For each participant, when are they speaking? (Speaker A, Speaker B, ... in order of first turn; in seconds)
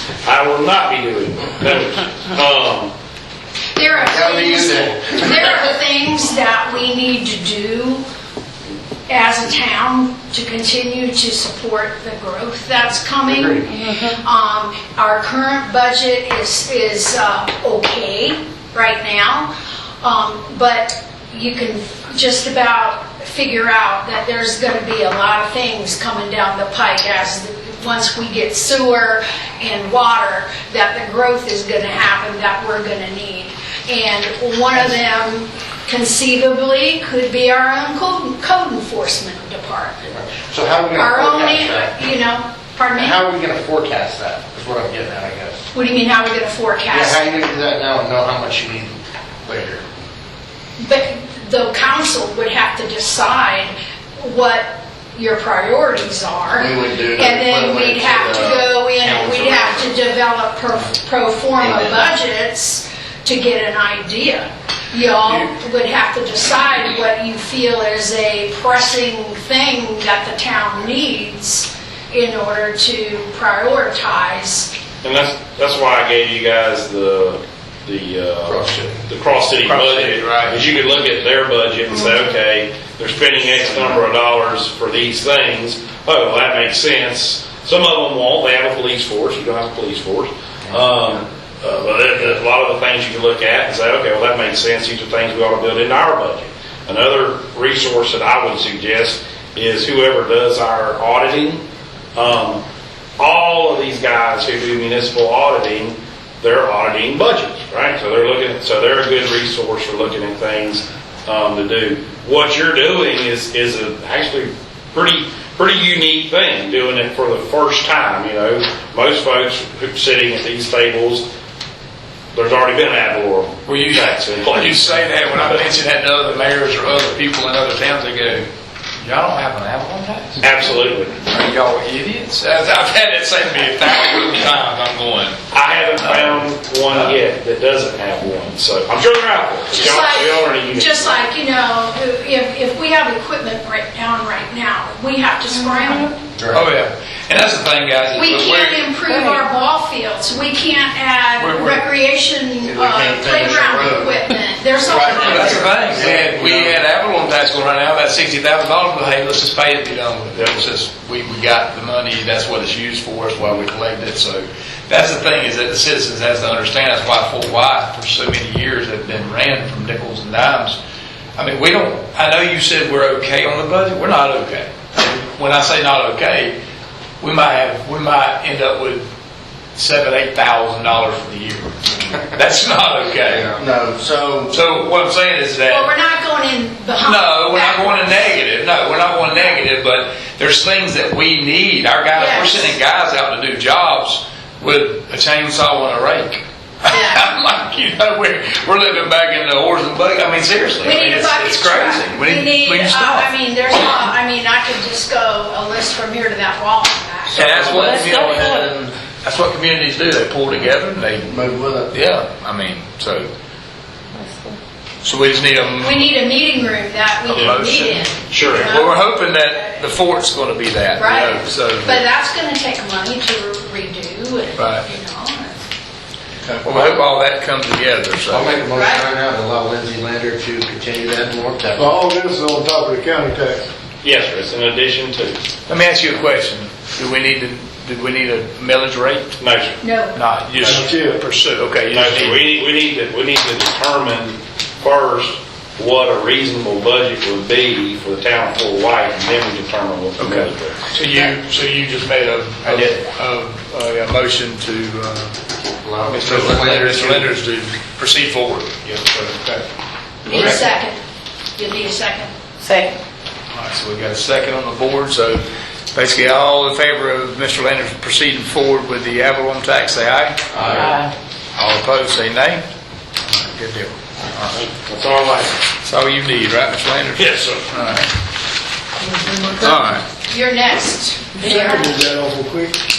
Speaker A: 0.2-2.9, 75.0-101.6, 102.1-102.6, 103.2-121.2, 122.3-125.6, 130.4-131.2, 135.5-141.2, 217.3-217.6, 218.3-218.8, 234.0-235.4, 239.4-239.8, 241.9-250.8, 270.6-270.9, 274.5-275.6, 277.1-277.6
Speaker B: 3.7-8.0, 9.1-19.5, 20.0-40.0, 41.0-43.2, 45.7-47.2, 50.8-74.7, 139.7-146.1, 148.1-155.9, 185.7-188.2, 192.1-192.7, 196.8-197.3, 200.8-207.8, 215.8-219.8, 220.9-225.7, 228.7-229.1, 239.8-240.2, 260.2-261.0, 261.6-262.3, 280.2-282.0
Speaker C: 4.0-5.2, 13.3-13.7, 40.0-41.9, 43.0-45.6, 46.9-49.8, 56.6-59.9, 78.5-78.9, 146.3-146.7, 152.7-154.2, 154.8-156.7, 183.3-184.5, 211.3-211.9, 228.3-232.0, 255.8-257.3, 270.5-270.9
Speaker D: 79.6-80.6, 123.7-128.5, 129.0-130.4, 131.2-135.4, 136.0-137.2, 146.5-149.0, 151.4-151.8, 155.1-170.8, 171.4-176.5, 177.2-179.0, 179.8-181.8, 182.3-183.6, 184.5-185.9, 187.0-203.3, 207.3-213.3, 215.0-216.0, 217.3-222.0, 224.6-224.8, 226.6-228.6, 235.7-239.4, 240.1-242.4, 250.2-255.4, 256.0-259.6, 260.3-260.6, 263.5-265.4, 265.9-270.7, 271.6-272.6, 273.2-274.5, 275.8-278.1, 279.6-280.1
Speaker E: 145.5-146.1, 149.1-149.4, 207.7-208.7, 214.2-214.6, 260.3-260.6, 262.6-263.0, 270.7-271.1, 279.2-279.8, 281.4-281.7
Speaker F: 231.8-233.7, 240.6-241.2, 281.5-282.7